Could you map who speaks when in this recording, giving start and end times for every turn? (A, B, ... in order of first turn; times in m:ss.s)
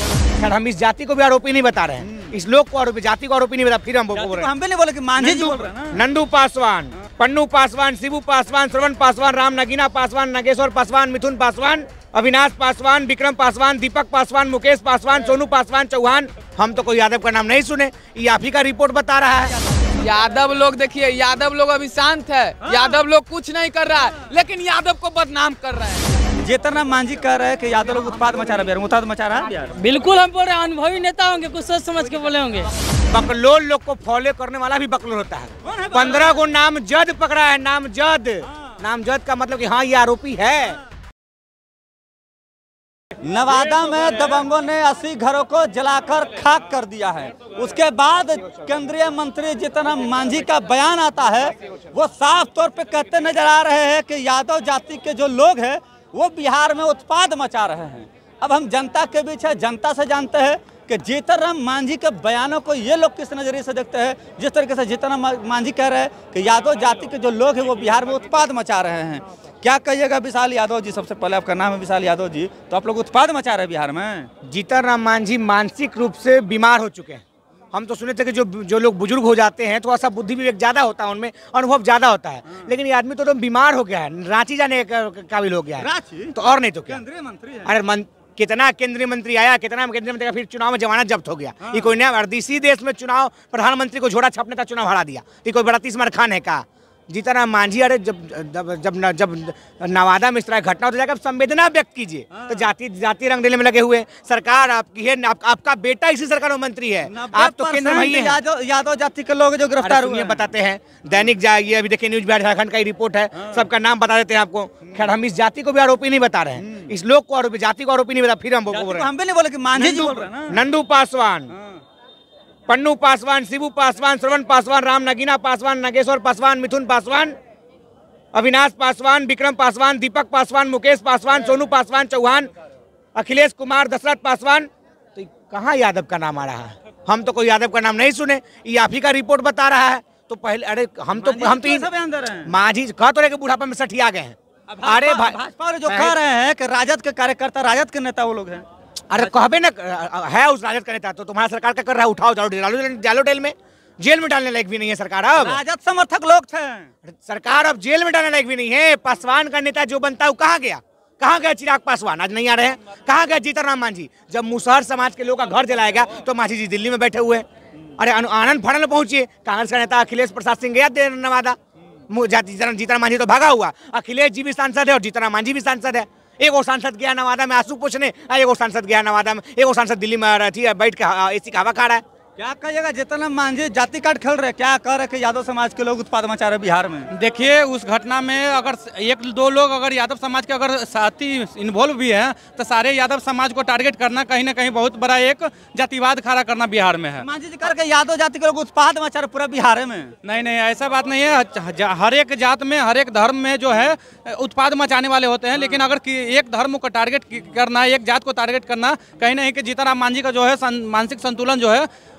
0:00.4-0:04.5 A
0:02.0-0:02.3 B
0:04.1-0:06.0 B
0:05.2-0:19.6 A
0:20.0-0:26.2 C
0:26.4-0:29.7 B
0:29.8-0:32.7 D
0:33.1-0:40.8 A
0:35.6-0:36.4 B
0:43.2-1:14.3 B
1:14.4-1:27.0 A
1:25.8-1:26.4 B
1:26.9-1:27.7 B
1:27.6-1:48.4 A
1:31.6-1:31.9 B
1:42.3-1:42.7 B
1:47.0-1:50.5 B
1:49.8-1:59.1 A
1:53.4-1:53.6 B
1:56.6-1:56.9 B
1:58.7-2:00.6 B
1:59.7-2:01.5 A
2:02.7-2:07.3 A
2:08.3-2:12.5 A
2:13.1-2:21.9 A
2:21.1-2:22.5 B
2:22.4-2:26.1 A
2:24.7-2:28.6 B
2:29.1-2:35.6 A
2:35.4-2:36.9 B
2:37.0-2:47.4 A
2:48.0-2:51.6 A
2:52.1-3:02.0 A
3:02.4-3:07.1 B
3:07.1-3:17.2 E
3:17.2-3:20.1 B
3:20.2-3:31.9 E